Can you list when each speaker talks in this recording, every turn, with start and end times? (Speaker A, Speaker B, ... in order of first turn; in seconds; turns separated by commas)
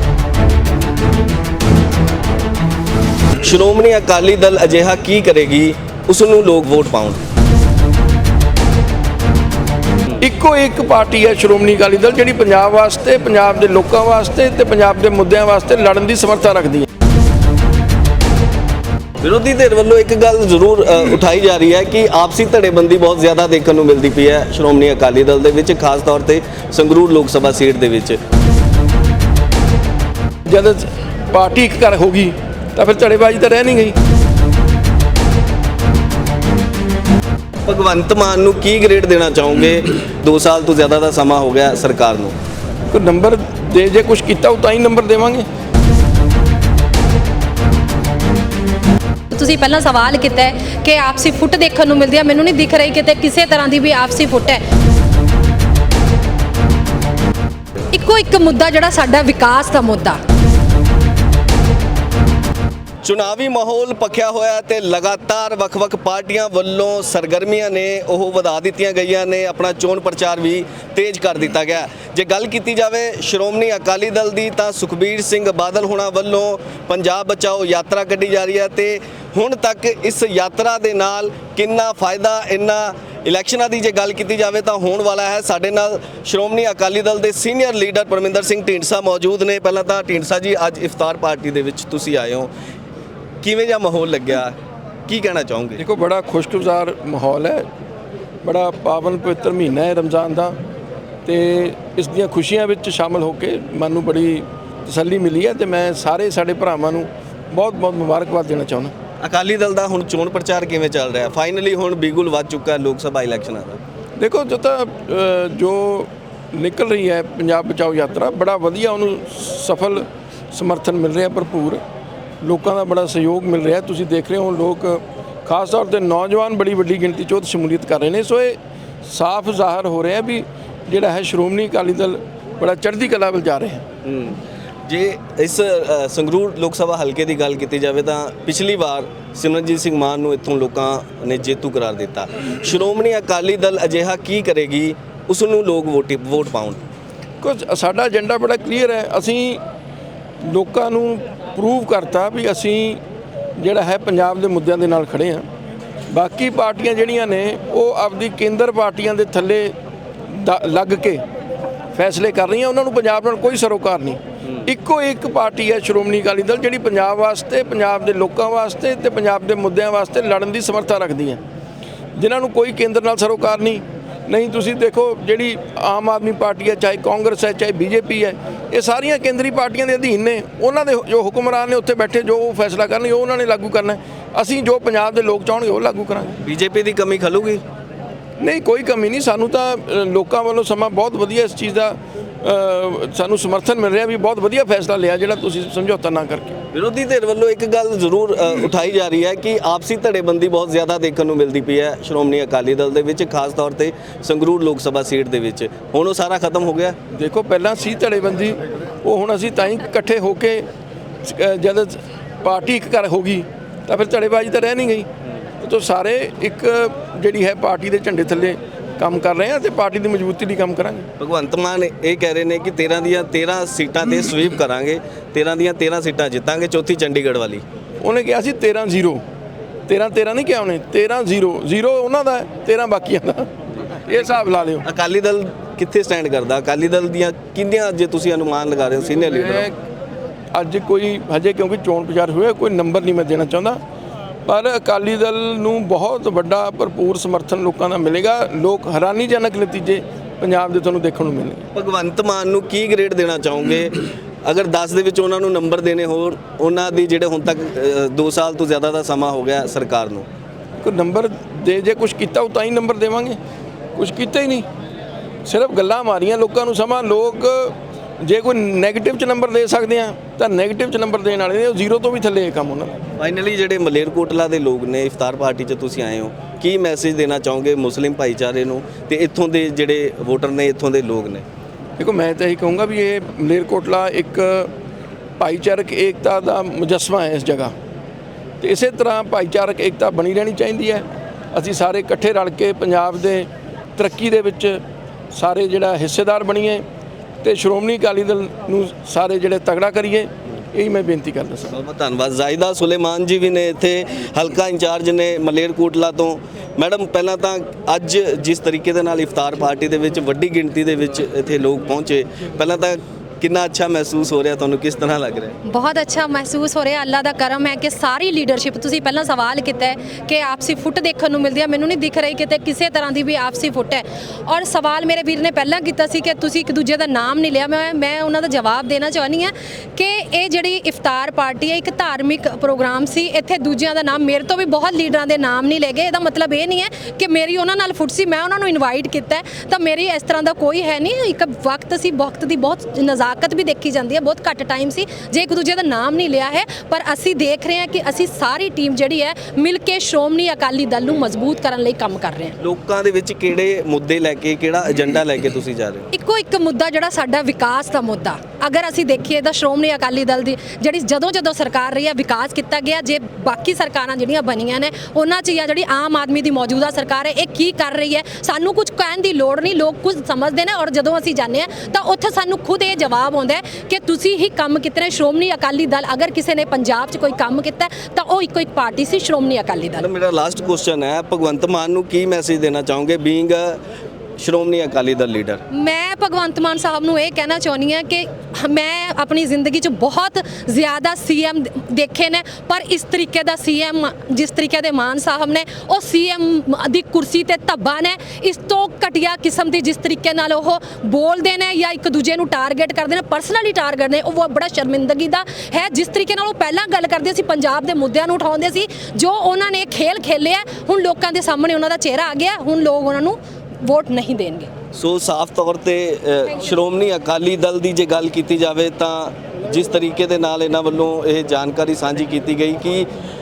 Speaker A: 3.4-7.2, Speaker B: 10.2-16.9, Speaker A: 19.2-28.2, Speaker B: 30.5-34.0, Speaker A: 37.6-42.3, Speaker B: 42.9-45.5, Speaker C: 49.3-54.6, Speaker C: 57.9-60.2, Speaker A: 63.0-92.5, Speaker A: 93.4-94.5, Speaker A: 95.1-95.8, Speaker B: 95.8-97.7, Speaker B: 98.4-100.5, Speaker B: 101.2-108.9, Speaker A: 109.2-113.8, Speaker B: 114.2-121.8, Speaker B: 122.4-133.8, Speaker A: 134.0-146.8, Speaker B: 147.4-149.6, Speaker B: 150.4-153.0, Speaker B: 153.6-155.4, Speaker B: 156.1-159.7, Speaker B: 160.3-161.2, Speaker B: 161.9-171.4, Speaker B: 172.2-186.4, Speaker A: 186.4-187.6, Speaker B: 188.4-196.6, Speaker A: 196.7-206.9, Speaker B: 207.1-210.6, Speaker B: 211.2-215.1, Speaker B: 215.6-221.1, Speaker A: 221.2-227.6, Speaker B: 228.0-229.2, Speaker B: 229.9-233.5, Speaker B: 234.1-234.8, Speaker A: 234.8-239.7, Speaker B: 239.2-239.8, Speaker B: 240.5-243.8, Speaker B: 244.4-251.6, Speaker A: 251.7-260.2, Speaker B: 260.8-263.4, Speaker B: 263.9-264.6, Speaker B: 265.4-273.0, Speaker A: 273.2-281.4, Speaker B: 282.0-284.7, Speaker B: 285.4-287.7, Speaker B: 288.6-294.8, Speaker B: 295.3-296.8, Speaker B: 297.4-301.7, Speaker A: 301.7-315.5, Speaker C: 315.6-352.6, Speaker A: 352.6-356.1, Speaker C: 356.1-380.1, Speaker A: 380.0-383.8, Speaker A: 384.4-385.6, Speaker C: 385.7-414.7, Speaker A: 414.9-423.1